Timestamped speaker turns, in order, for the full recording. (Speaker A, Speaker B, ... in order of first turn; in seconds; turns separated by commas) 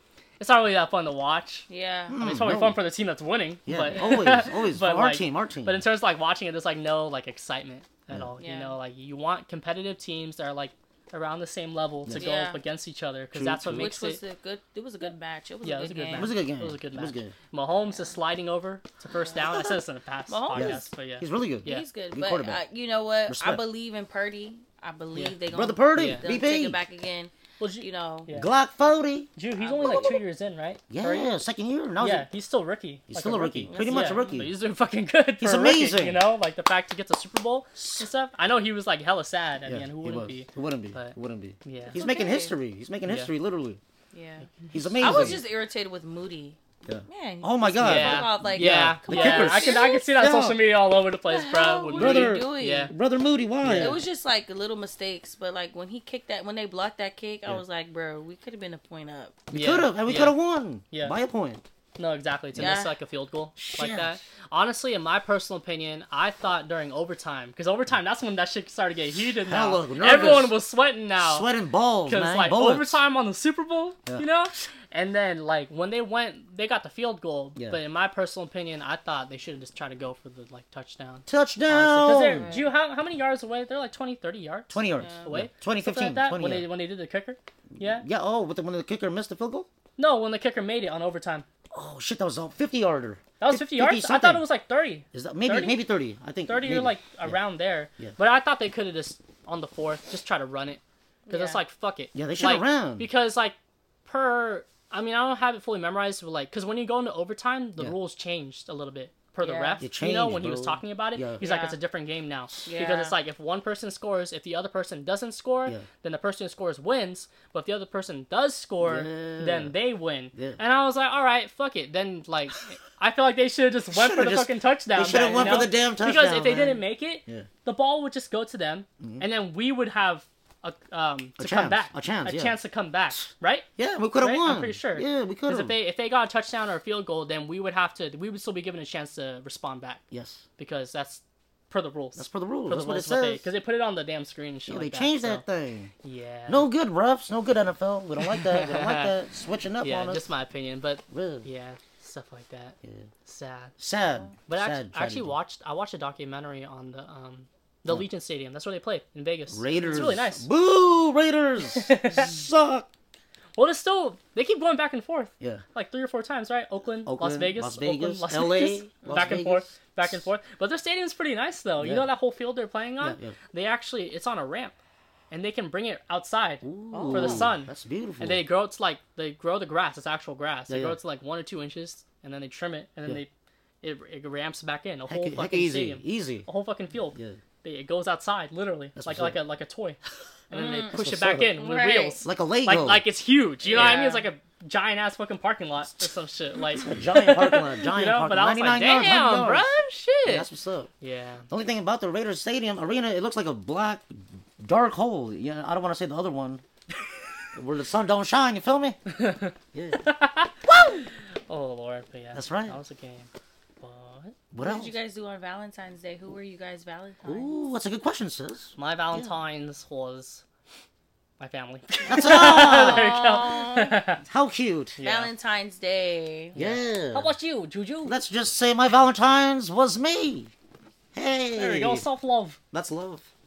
Speaker A: 0.4-14.2, Speaker B: 1.7-2.2, Speaker C: 2.1-2.8, Speaker C: 3.6-5.8, Speaker B: 8.4-8.8, Speaker B: 12.1-12.6, Speaker C: 13.3-13.9, Speaker B: 13.7-16.3, Speaker A: 15.6-21.9, Speaker C: 16.1-17.3, Speaker B: 19.2-20.9, Speaker C: 20.5-22.6, Speaker B: 21.7-28.3, Speaker C: 23.3-23.6, Speaker A: 25.1-25.4, Speaker C: 25.5-26.8, Speaker A: 25.9-26.3, Speaker A: 27.6-28.5, Speaker C: 28.3-30.2, Speaker A: 29.4-31.3, Speaker B: 29.6-30.2, Speaker C: 30.9-32.3, Speaker A: 32.0-42.0, Speaker C: 33.1-34.5, Speaker B: 33.2-34.4, Speaker C: 35.4-36.2, Speaker C: 37.8-38.1, Speaker C: 39.6-43.8, Speaker B: 41.9-42.5, Speaker A: 43.0-43.3, Speaker B: 44.1-50.0, Speaker C: 44.6-45.4, Speaker A: 45.0-45.3, Speaker C: 46.8-50.6, Speaker A: 47.8-52.9, Speaker B: 51.3-52.9, Speaker C: 51.9-54.0, Speaker A: 53.6-54.0, Speaker B: 53.7-59.5, Speaker A: 59.5-60.4, Speaker C: 59.5-61.6, Speaker A: 62.0-71.5, Speaker B: 62.5-63.0, Speaker C: 63.5-64.2, Speaker C: 69.4-70.6, Speaker C: 71.2-73.0, Speaker A: 72.0-88.0, Speaker C: 81.3-82.5, Speaker B: 82.3-82.7, Speaker C: 84.7-86.7, Speaker B: 84.9-85.3, Speaker C: 87.7-89.7, Speaker A: 90.0-91.5, Speaker C: 91.7-94.4, Speaker A: 93.4-95.8, Speaker C: 95.1-97.4, Speaker A: 96.5-103.5, Speaker B: 101.3-101.6, Speaker C: 102.1-103.1, Speaker A: 104.0-133.7, Speaker B: 109.4-109.8, Speaker C: 109.8-111.4, Speaker B: 111.4-111.8, Speaker B: 112.6-113.2, Speaker C: 118.8-119.8, Speaker C: 120.3-120.6, Speaker C: 123.9-127.5, Speaker C: 131.4-132.6, Speaker C: 133.8-135.8, Speaker A: 134.2-140.0, Speaker C: 140.1-140.4, Speaker A: 140.6-145.4, Speaker C: 142.2-143.4, Speaker C: 144.7-145.9, Speaker A: 146.0-146.7, Speaker C: 146.5-150.2, Speaker A: 148.2-149.1, Speaker A: 149.8-153.7, Speaker C: 151.1-151.5, Speaker C: 153.8-155.3, Speaker A: 154.4-160.5, Speaker C: 159.5-162.9, Speaker A: 161.6-162.3, Speaker A: 163.6-174.7, Speaker C: 167.0-169.7, Speaker C: 171.8-172.1, Speaker C: 173.0-173.3, Speaker A: 175.3-183.3, Speaker C: 176.6-178.4, Speaker B: 176.9-177.5, Speaker C: 180.7-181.0, Speaker A: 183.8-200.5, Speaker C: 185.1-186.4, Speaker C: 188.9-189.4, Speaker B: 190.5-191.0, Speaker C: 190.9-191.6, Speaker B: 191.5-192.2, Speaker C: 192.2-193.1, Speaker B: 193.7-194.3, Speaker C: 193.7-194.1, Speaker C: 196.7-199.7, Speaker C: 200.2-200.9, Speaker A: 201.0-201.4, Speaker C: 201.5-206.6, Speaker C: 207.5-209.0, Speaker A: 209.2-209.5, Speaker C: 209.7-210.0, Speaker A: 210.1-210.5, Speaker A: 211.5-213.3, Speaker C: 212.3-212.8, Speaker A: 213.8-214.3, Speaker C: 214.5-214.9, Speaker B: 214.6-217.6, Speaker C: 217.2-219.3, Speaker A: 218.8-220.4, Speaker A: 221.4-224.2, Speaker C: 222.0-223.2, Speaker B: 222.2-224.0, Speaker C: 224.2-225.0, Speaker A: 225.0-225.3, Speaker B: 225.0-226.6, Speaker A: 226.5-228.1, Speaker C: 226.5-227.3, Speaker C: 228.0-230.5, Speaker C: 231.1-232.1, Speaker A: 231.5-232.6, Speaker C: 232.7-233.2